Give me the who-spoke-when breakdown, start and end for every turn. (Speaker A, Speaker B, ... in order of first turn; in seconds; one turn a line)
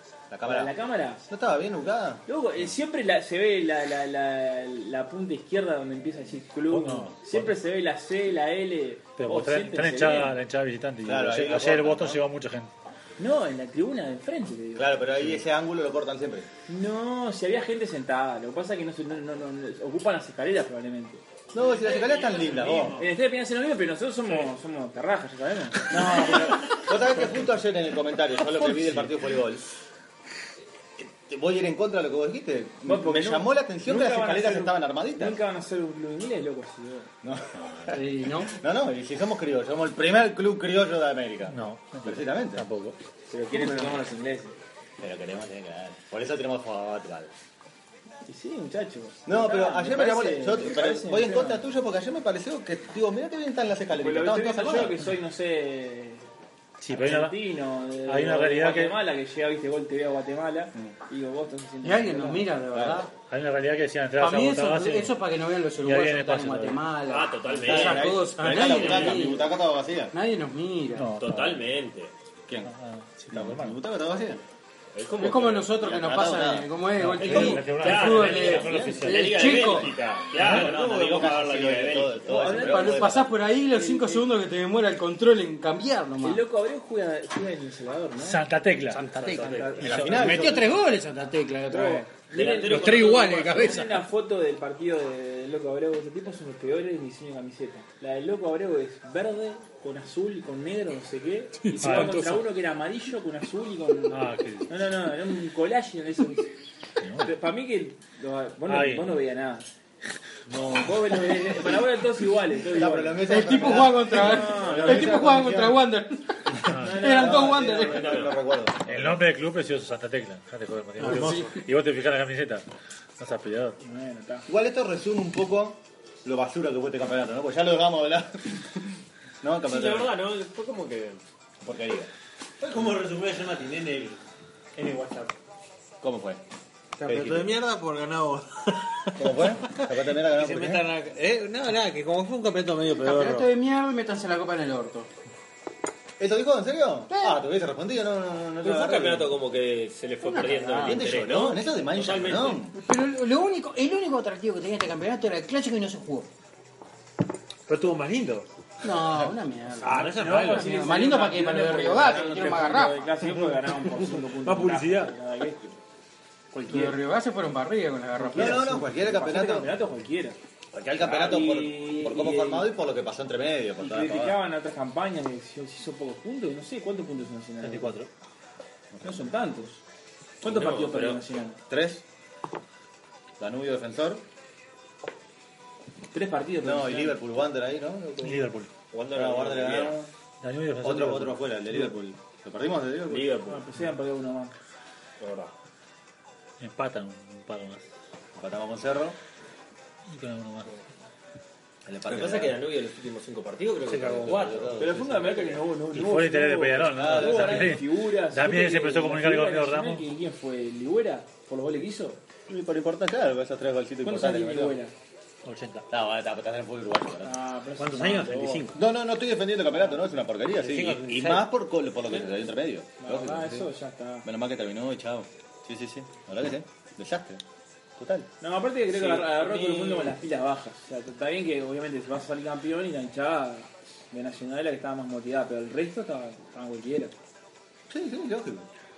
Speaker A: 0.3-0.7
Speaker B: 0.4-1.3
Speaker A: 1.3-2.2
Speaker B: 2.3-10.4
Speaker C: 6.7-7.6
Speaker C: 9.2-12.7
Speaker A: 11.0-12.2
Speaker B: 13.2-15.4
Speaker A: 14.8-16.5
Speaker B: 16.7-21.2
Speaker A: 21.5-23.0
Speaker D: 21.8-23.1
Speaker B: 22.9-26.8
Speaker A: 25.9-29.6
Speaker C: 28.7-29.1
Speaker A: 31.0-35.4
Speaker B: 32.9-37.1
Speaker A: 37.2-42.7
Speaker C: 37.6-38.0
Speaker E: 37.9-38.5
Speaker C: 41.5-43.0
Speaker B: 43.3-44.6
Speaker D: 43.5-43.9
Speaker A: 45.0-47.3
Speaker B: 48.3-51.6
Speaker A: 49.3-55.0
Speaker B: 53.9-56.3
Speaker C: 56.8-57.4
Speaker B: 56.9-62.6
Speaker C: 58.1-59.0
Speaker E: 61.8-63.1
Speaker A: 62.7-63.0
Speaker C: 63.3-65.2
Speaker E: 64.2-69.5
Speaker C: 65.8-66.8
Speaker D: 67.1-69.2
Speaker A: 67.7-70.1
Speaker E: 70.1-71.1
Speaker C: 70.9-71.7
Speaker D: 71.2-72.1
Speaker A: 72.5-72.7
Speaker C: 72.7-73.8
Speaker A: 73.3-74.4
Speaker D: 74.9-75.7
Speaker E: 75.2-79.9
Speaker A: 75.8-76.7
Speaker C: 77.0-79.5
Speaker D: 77.2-82.6
Speaker A: 78.5-83.3
Speaker C: 80.3-80.7
Speaker B: 82.2-84.3
Speaker E: 82.5-86.4
Speaker B: 86.2-88.4
Speaker C: 88.2-89.3
Speaker E: 88.9-94.0
Speaker B: 89.2-90.6
Speaker D: 89.2-90.0
Speaker A: 89.8-90.7
Speaker C: 89.8-90.4
Speaker B: 91.7-106.5
Speaker D: 92.3-93.8
Speaker E: 101.6-102.4
Speaker C: 101.8-102.4
Speaker C: 104.1-104.7
Speaker C: 107.0-107.3
Speaker B: 107.2-109.7
Speaker C: 108.7-109.2
Speaker B: 110.5-115.3
Speaker A: 112.7-115.8
Speaker E: 113.2-118.0
Speaker C: 116.7-117.1
Speaker B: 116.8-118.2
Speaker A: 117.0-119.3
Speaker D: 117.8-118.4
Speaker C: 118.9-122.7
Speaker E: 121.0-121.6
Speaker C: 123.2-123.8
Speaker B: 123.8-124.5
Speaker A: 124.5-130.1
Speaker D: 129.7-131.2
Speaker A: 131.6-132.1
Speaker F: 132.6-134.2
Speaker F: 134.8-135.3
Speaker A: 136.0-136.4
Speaker F: 137.0-143.5
Speaker A: 137.0-137.6
Speaker A: 139.2-140.9
Speaker E: 142.9-145.1
Speaker A: 146.2-149.4
Speaker E: 147.1-147.4
Speaker D: 148.6-152.7
Speaker E: 150.2-151.1
Speaker A: 150.8-152.7
Speaker E: 152.8-156.3
Speaker F: 157.7-158.5
Speaker E: 158.8-163.1
Speaker F: 159.8-160.8
Speaker B: 159.9-165.8
Speaker F: 164.4-165.1
Speaker B: 166.6-167.0
Speaker E: 166.7-168.8
Speaker B: 168.2-170.4
Speaker A: 168.3-169.7
Speaker A: 170.7-174.4
Speaker B: 171.0-172.7
Speaker B: 173.8-178.0
Speaker C: 177.6-178.1
Speaker A: 178.9-179.3
Speaker B: 179.0-179.8
Speaker B: 180.4-181.6
Speaker D: 180.4-181.2
Speaker A: 181.7-182.0
Speaker A: 183.4-184.2
Speaker B: 186.1-187.3
Speaker A: 186.6-188.4
Speaker C: 188.2-188.7
Speaker D: 188.9-190.0
Speaker A: 189.1-190.1
Speaker C: 190.4-191.4
Speaker A: 190.8-193.3
Speaker D: 193.1-193.7
Speaker B: 193.5-194.5
Speaker D: 195.2-195.5
Speaker C: 196.6-197.9
Speaker A: 198.4-199.2
Speaker C: 200.1-200.8
Speaker A: 201.9-202.6
Speaker D: 202.1-205.6
Speaker A: 204.1-205.4
Speaker B: 204.8-212.2
Speaker C: 205.9-210.0
Speaker A: 206.9-207.8
Speaker A: 212.5-214.8
Speaker B: 214.0-214.9
Speaker C: 215.4-215.9
Speaker A: 215.9-217.4
Speaker B: 217.2-218.8
Speaker F: 217.8-218.8
Speaker C: 217.8-218.1
Speaker A: 218.8-223.7
Speaker F: 220.6-221.4
Speaker B: 223.0-224.3
Speaker A: 224.2-227.4
Speaker A: 228.0-228.3
Speaker B: 228.4-237.1
Speaker D: 228.9-230.2
Speaker A: 237.9-238.7